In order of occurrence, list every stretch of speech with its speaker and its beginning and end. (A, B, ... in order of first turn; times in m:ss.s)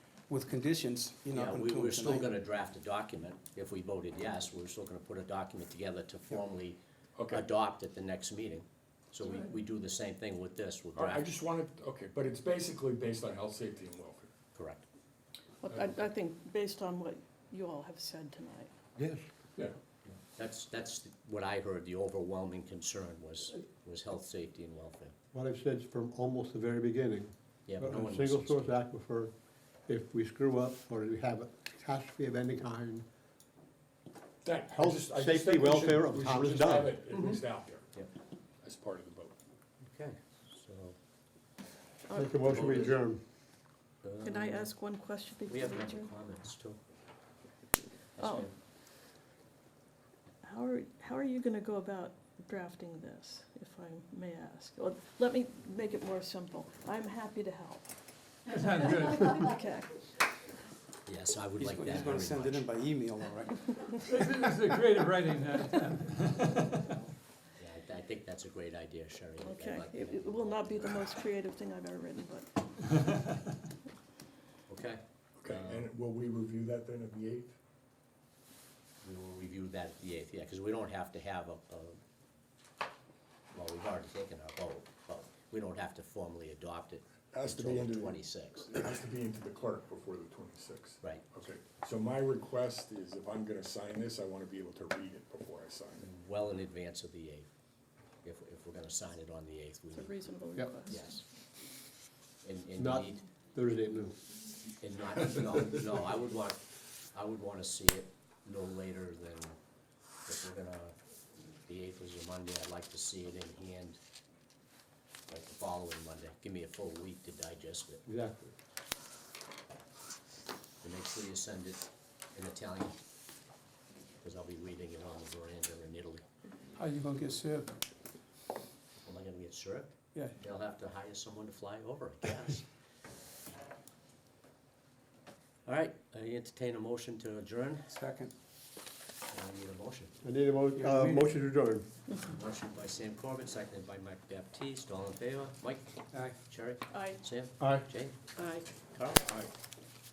0:00.3-0:02.4 A
0:01.3-0:11.3 B
0:07.2-0:07.4 C
0:10.9-0:14.3 C
0:14.5-0:14.8 B
0:15.6-0:18.7 D
0:15.7-0:16.0 C
0:19.0-0:19.2 E
0:20.3-0:25.1 B
0:25.3-0:29.3 E
0:27.7-0:28.7 B
0:29.9-0:33.0 E
0:34.4-0:37.9 C
0:34.7-0:37.0 E
0:37.1-0:37.4 B
0:38.6-0:39.3 C
0:39.8-0:40.9 B
0:42.1-0:42.4 D
0:42.1-0:43.2 E
0:42.4-0:43.0 B
0:44.0-0:44.7 B
0:44.2-0:46.1 D
0:45.5-0:46.8 B
0:48.2-0:48.5 B
0:48.2-0:48.5 D
0:50.4-0:58.0 D
0:58.5-1:00.0 D
0:58.6-0:59.2 F
1:01.0-1:02.7 B
1:01.6-1:04.0 A
1:04.1-1:06.6 F
1:07.6-1:11.1 B
1:09.4-1:12.5 D
1:14.7-1:15.9 B
1:15.4-1:17.5 C
1:19.0-1:22.0 B
1:23.5-1:28.7 B
1:27.3-1:36.1 C
1:31.0-1:31.2 B
1:36.0-1:37.5 B
1:38.2-1:40.2 B
1:39.9-1:41.2 D
1:40.9-1:41.2 B
1:42.4-1:43.2 B
1:42.8-1:44.2 E
1:44.8-1:46.6 B
1:47.1-1:49.6 B
1:50.2-1:50.9 B
1:51.6-1:54.0 B
1:55.3-1:58.0 B
1:58.0-1:58.5 E
2:00.8-2:03.0 B
2:04.2-2:06.2 B
2:06.8-2:07.8 A
2:09.0-2:12.6 B
2:15.6-2:17.8 B
2:17.9-2:18.3 A
2:19.3-2:20.1 B
2:20.2-2:21.8 E
2:20.8-2:21.3 A
2:22.2-2:28.2 B
2:26.1-2:26.4 A
2:26.9-2:27.2 D
2:27.6-2:27.9 E
2:28.4-2:28.7 D
2:28.9-2:29.4 B
2:29.2-2:29.5 C